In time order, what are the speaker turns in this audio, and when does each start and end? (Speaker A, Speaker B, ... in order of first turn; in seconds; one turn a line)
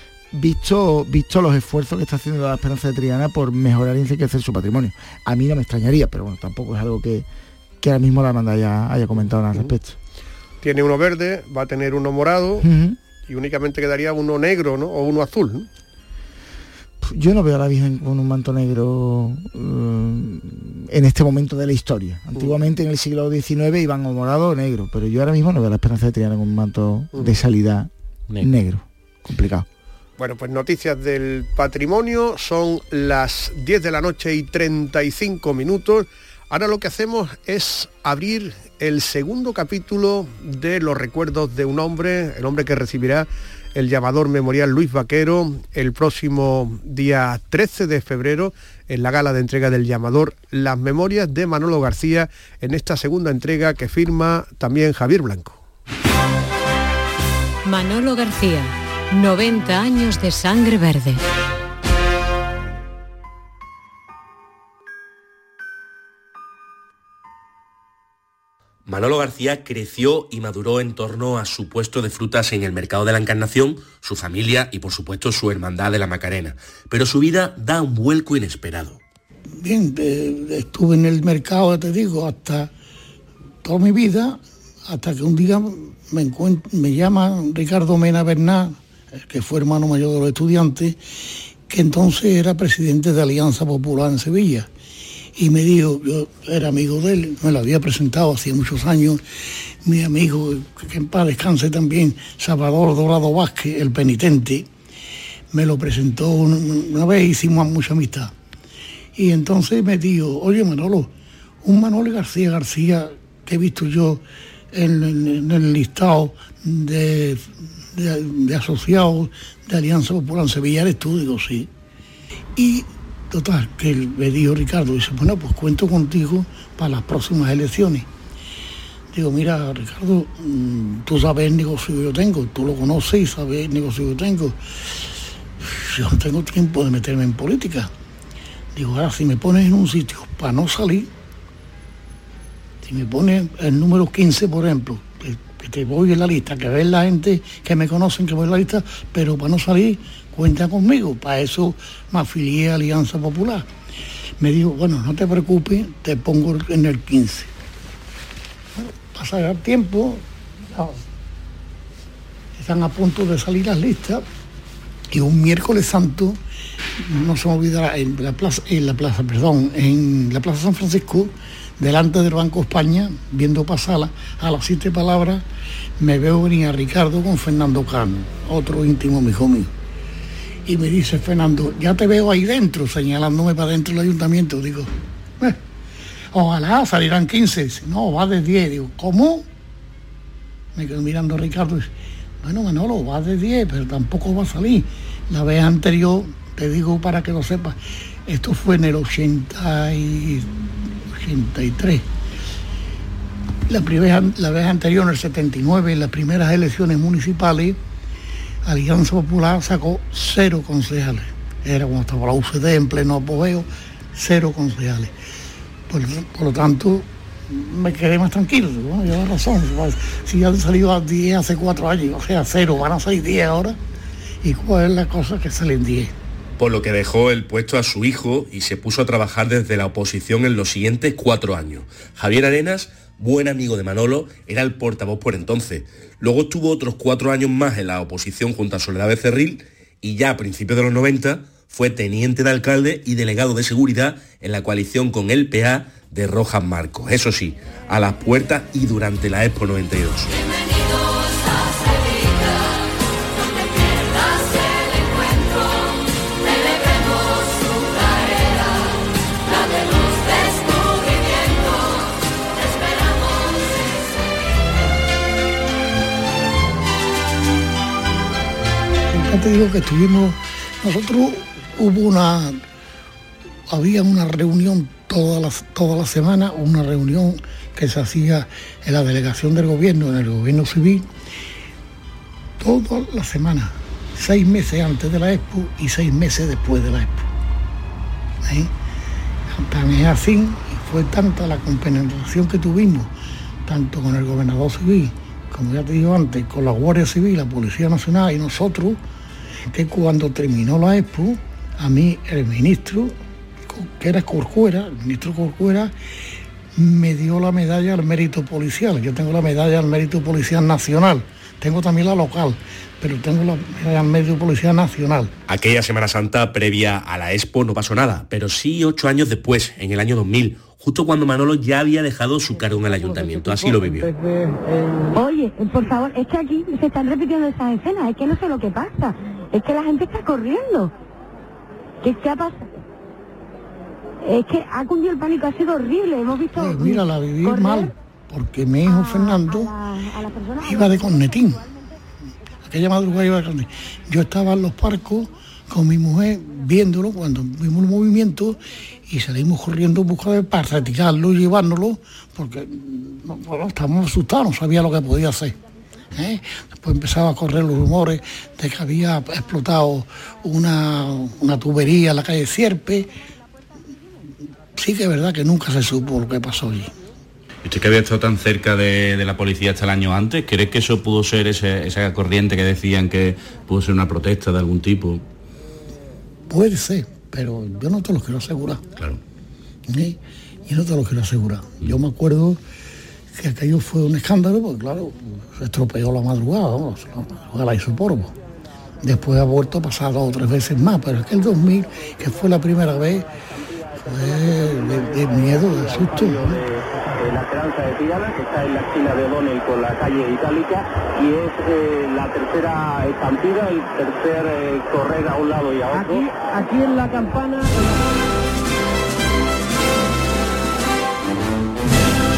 Speaker A: 0.3-7.3
Speaker A: 7.8-10.0
Speaker B: 10.6-12.7
Speaker A: 12.6-13.0
Speaker B: 13.3-15.7
Speaker A: 17.0-29.7
Speaker B: 27.1-27.4
Speaker B: 30.2-55.6
Speaker C: 57.6-61.2
Speaker D: 68.9-79.0
Speaker E: 79.6-82.7
Speaker E: 83.6-91.0
Speaker E: 91.7-94.7
Speaker E: 95.4-99.2
Speaker E: 99.8-104.7
Speaker E: 105.5-108.3
Speaker E: 109.2-111.1
Speaker E: 111.6-121.7
Speaker E: 122.6-128.1
Speaker E: 129.1-135.0
Speaker E: 135.7-137.9
Speaker E: 138.8-141.1
Speaker E: 142.8-153.7
Speaker E: 154.4-157.5
Speaker E: 158.8-161.0
Speaker E: 162.6-164.2
Speaker E: 165.1-166.4
Speaker E: 167.0-175.4
Speaker E: 176.0-179.7
Speaker E: 180.7-185.6
Speaker E: 186.3-189.5
Speaker E: 190.8-191.9
Speaker E: 192.4-200.5
Speaker E: 201.2-202.1
Speaker E: 203.7-207.8
Speaker E: 208.7-215.1
Speaker E: 215.9-223.8
Speaker E: 224.4-226.1
Speaker D: 226.6-250.4
Speaker E: 269.1-272.6
Speaker E: 273.7-281.1
Speaker E: 282.6-287.3
Speaker E: 288.5-288.7
Speaker E: 289.5-293.1
Speaker E: 293.7-299.0
Speaker E: 299.7-303.1
Speaker E: 303.7-305.9
Speaker E: 306.8-315.3
Speaker D: 315.5-324.1
Speaker F: 325.1-330.9
Speaker F: 332.0-332.7
Speaker F: 334.2-337.9
Speaker E: 336.5-339.7
Speaker F: 338.9-341.4
Speaker E: 340.6-341.7
Speaker E: 342.6-355.6
Speaker E: 356.1-363.1
Speaker E: 364.8-366.9
Speaker G: 367.6-375.2
Speaker E: 376.5-378.9
Speaker E: 379.9-382.6
Speaker E: 383.4-388.4
Speaker E: 389.0-393.3
Speaker E: 394.0-396.6
Speaker H: 396.0-396.6
Speaker H: 397.2-407.5